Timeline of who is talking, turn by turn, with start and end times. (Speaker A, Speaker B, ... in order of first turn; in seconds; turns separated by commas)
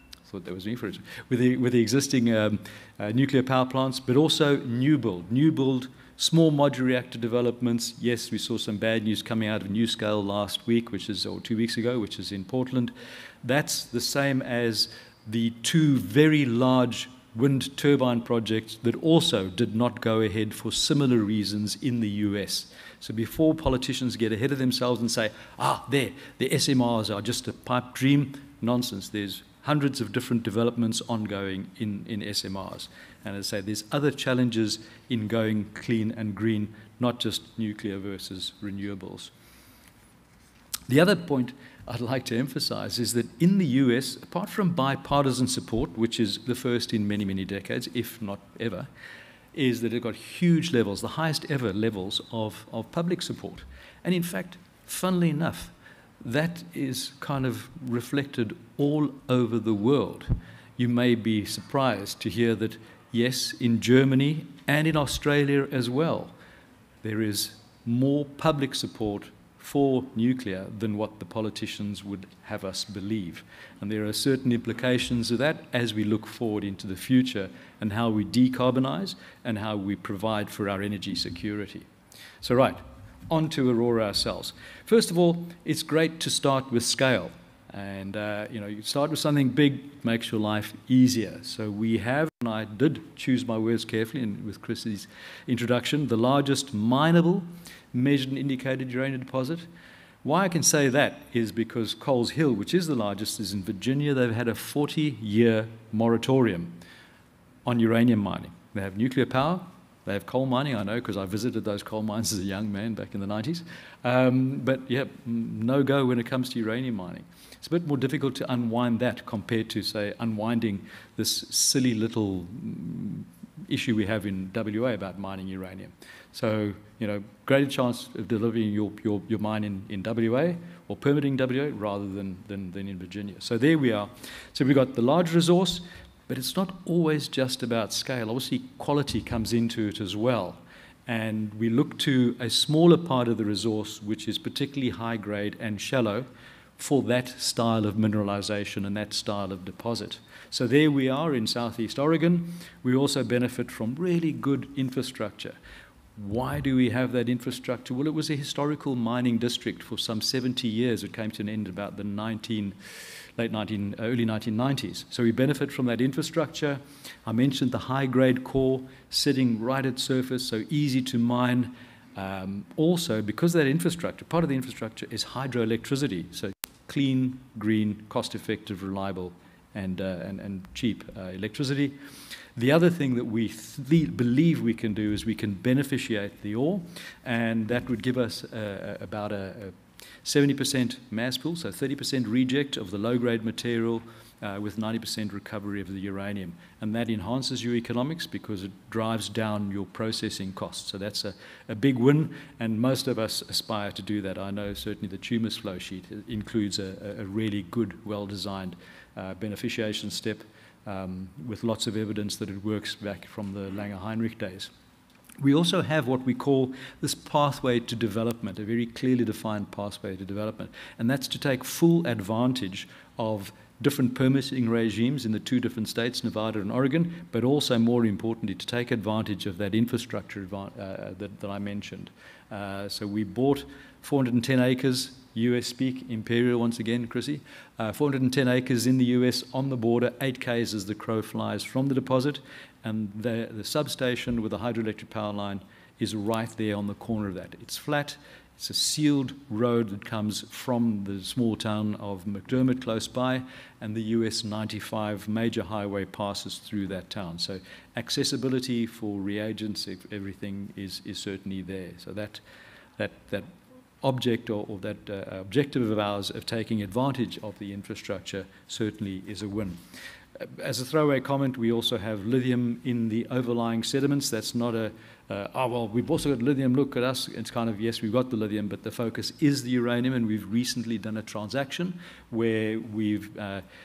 Speaker A: 0.2-39.3, Speaker A: 40.9-48.9, Speaker A: 49.5-66.3, Speaker A: 67.0-81.9, Speaker A: 82.4-99.7, Speaker A: 100.2-106.8, Speaker A: 107.7-155.6, Speaker A: 156.2-162.8, Speaker A: 163.4-181.9, Speaker A: 182.6-214.7, Speaker A: 215.4-262.4, Speaker A: 263.0-263.5, Speaker A: 264.0-269.8, Speaker A: 270.4-283.6